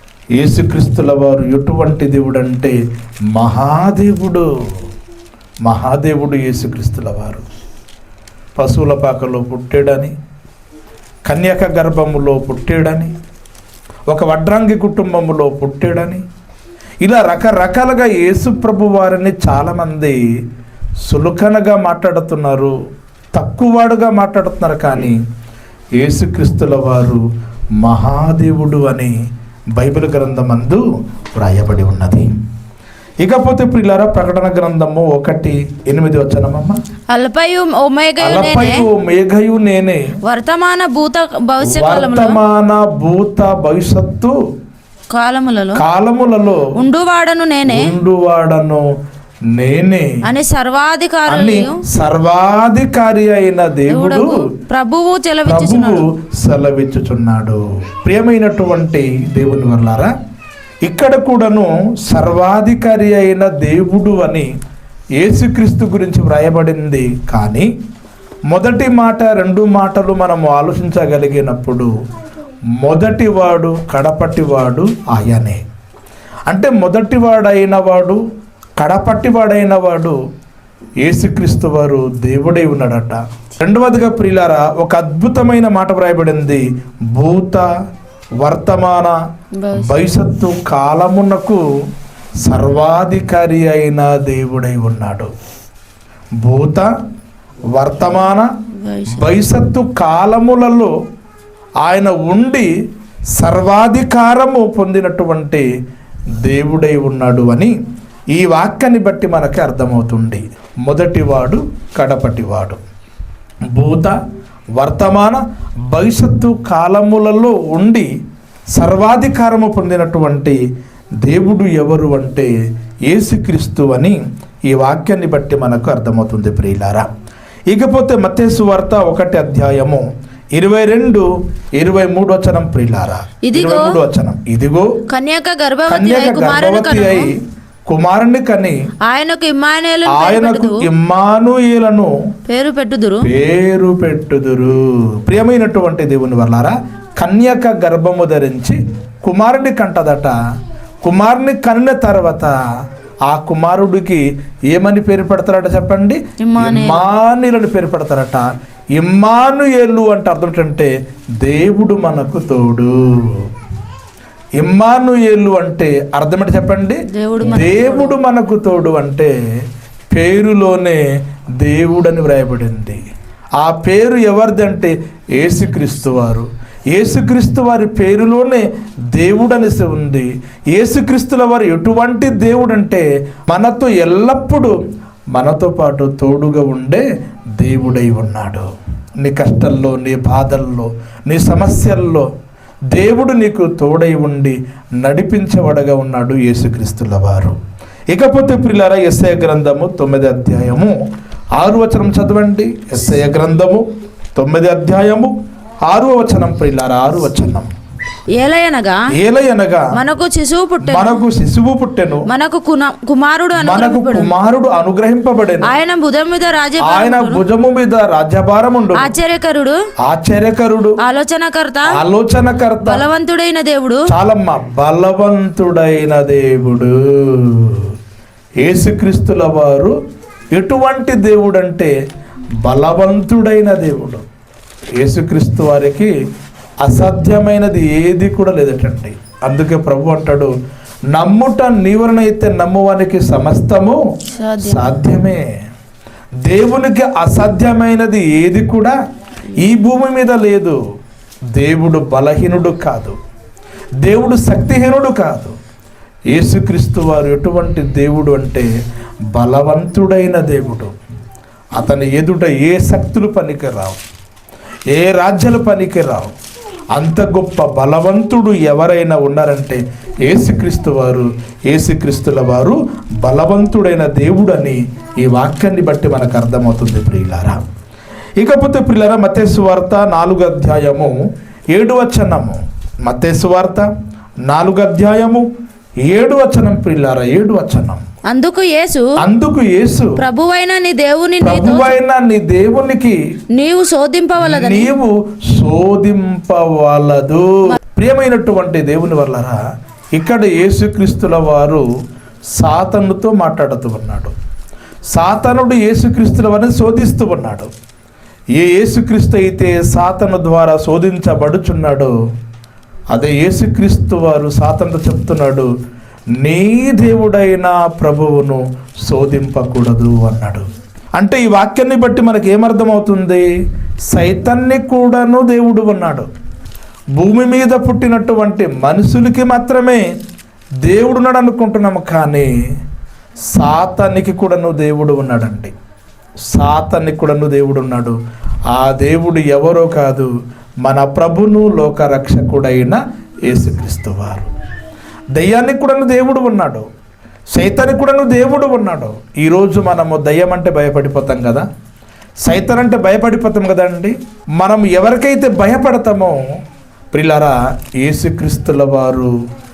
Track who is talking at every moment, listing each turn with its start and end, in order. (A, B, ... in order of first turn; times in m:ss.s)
0:00.4-0:02.8 A
0:03.3-0:04.5 A
0:05.7-0:07.4 A
0:08.6-0:10.1 A
0:11.3-0:13.1 A
0:14.1-0:16.2 A
0:17.0-0:20.2 A
0:21.1-0:22.7 A
0:23.4-0:25.2 A
0:26.0-0:27.2 A
0:27.8-0:29.1 A
0:29.8-0:30.8 A
0:31.4-0:32.3 A
0:33.2-0:36.8 A
0:37.1-0:38.9 B
0:38.2-0:40.0 A
0:40.2-0:42.4 B
0:41.6-0:44.3 A
0:45.1-0:45.8 B
0:45.8-0:46.7 A
0:46.8-0:47.9 B
0:47.7-0:48.8 A
0:49.5-0:50.1 A
0:50.2-0:51.8 B
0:51.3-0:54.4 A
0:53.9-0:56.0 B
0:55.5-1:00.1 A
1:00.9-1:04.5 A
1:05.2-1:07.7 A
1:08.5-1:11.9 A
1:12.8-1:15.6 A
1:16.5-1:18.2 A
1:18.8-1:20.2 A
1:21.0-1:27.6 A
1:28.4-1:29.2 A
1:29.6-1:30.0 B
1:29.7-1:31.6 A
1:32.4-1:35.3 A
1:36.4-1:36.9 A
1:37.8-1:38.5 A
1:38.8-1:39.3 B
1:39.1-1:40.9 A
1:41.8-1:42.7 A
1:43.4-1:45.7 A
1:46.4-1:47.7 A
1:48.3-1:52.8 A
1:53.7-1:54.2 A
1:54.8-1:58.1 A
1:58.8-2:00.6 A
2:01.2-2:02.5 A
2:03.1-2:04.2 A
2:04.7-2:07.1 A
2:07.7-2:14.9 A
2:13.4-2:13.9 B
2:15.1-2:17.3 B
2:15.9-2:17.3 A
2:17.9-2:18.8 A
2:19.1-2:20.8 B
2:20.1-2:22.1 A
2:22.5-2:23.3 B
2:23.2-2:30.3 A
2:31.0-2:32.6 A
2:33.3-2:40.9 A
2:36.4-2:37.0 B
2:41.4-2:43.4 A
2:44.6-2:49.3 A
2:47.1-2:48.2 B
2:50.1-2:51.0 A
2:51.6-2:53.0 A
2:53.6-3:04.8 A
3:05.4-3:07.0 A
3:07.6-3:08.7 A
3:09.2-3:12.3 A
3:12.9-3:17.6 A
3:18.1-3:21.0 A
3:21.6-3:23.8 A
3:24.4-3:25.3 A
3:25.9-3:27.7 A
3:28.4-3:29.0 B
3:29.1-3:29.9 A
3:29.9-3:31.2 B
3:30.8-3:32.3 A
3:32.3-3:34.3 B
3:33.6-3:35.7 A
3:35.6-3:37.4 B
3:36.8-3:39.1 A
3:39.0-3:39.8 B
3:40.0-3:41.0 A
3:41.0-3:41.9 B
3:41.9-3:43.0 A
3:42.8-3:44.1 B
3:44.1-3:47.9 A
3:48.6-3:50.0 A
3:50.5-3:51.9 A
3:52.6-3:54.2 A
3:55.0-3:56.1 A
3:56.8-4:00.5 A
4:01.1-4:04.0 A
4:04.3-4:05.0 B
4:04.6-4:05.5 A
4:06.4-4:09.0 A
4:09.6-4:10.8 A
4:11.6-4:13.2 A
4:14.0-4:15.6 A
4:16.3-4:18.7 A
4:19.3-4:20.9 A
4:21.8-4:24.0 A
4:24.9-4:26.3 A
4:27.0-4:37.6 A
4:38.4-4:41.2 A
4:41.7-4:43.9 A
4:44.5-4:45.5 A
4:46.1-4:48.0 A
4:48.3-4:49.2 B
4:49.2-4:50.2 A
4:50.2-4:52.0 B
4:51.4-4:53.2 A
4:53.5-4:54.9 B
4:54.4-4:59.6 A
5:00.2-5:01.8 A
5:02.6-5:04.3 A
5:05.1-5:07.7 A
5:08.6-5:12.1 A
5:13.1-5:15.7 A
5:16.4-5:23.5 A
5:24.1-5:26.3 A
5:27.2-5:30.0 A
5:30.8-5:32.5 A
5:33.5-5:35.7 A
5:36.5-5:38.2 A
5:38.7-5:40.3 A
5:40.8-5:44.5 A
5:45.4-5:46.9 A
5:47.6-5:51.7 A
5:52.5-5:56.4 A
5:57.1-5:59.3 A